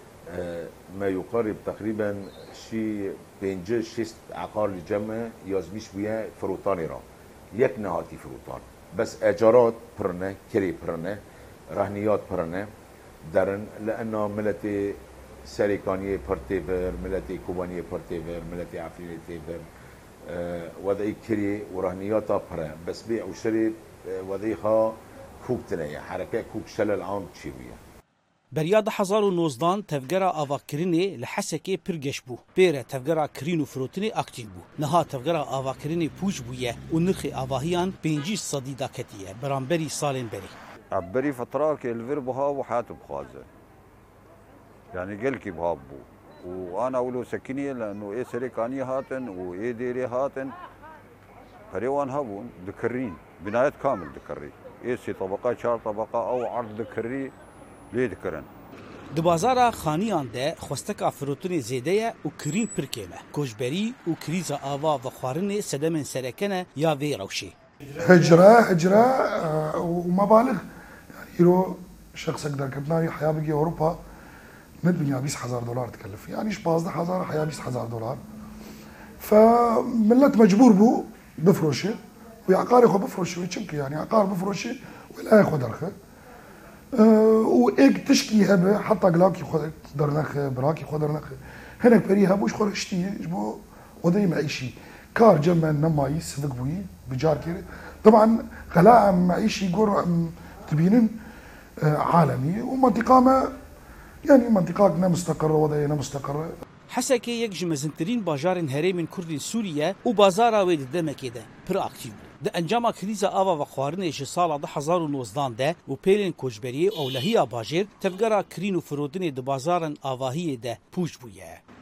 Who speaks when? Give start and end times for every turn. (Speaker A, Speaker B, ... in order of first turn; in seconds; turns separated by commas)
Speaker A: 0.3-12.7, Speaker A: 13.2-19.6, Speaker A: 20.2-27.8, Speaker B: 28.5-40.5, Speaker C: 40.9-43.5, Speaker C: 44.9-50.5, Speaker C: 51.7-57.3, Speaker C: 57.9-58.5, Speaker B: 59.1-67.5, Speaker D: 67.9-70.6, Speaker D: 71.2-74.0, Speaker D: 74.8-78.2, Speaker D: 79.2-85.9, Speaker D: 86.9-101.2, Speaker D: 101.8-103.5, Speaker D: 104.2-106.5, Speaker B: 106.9-121.6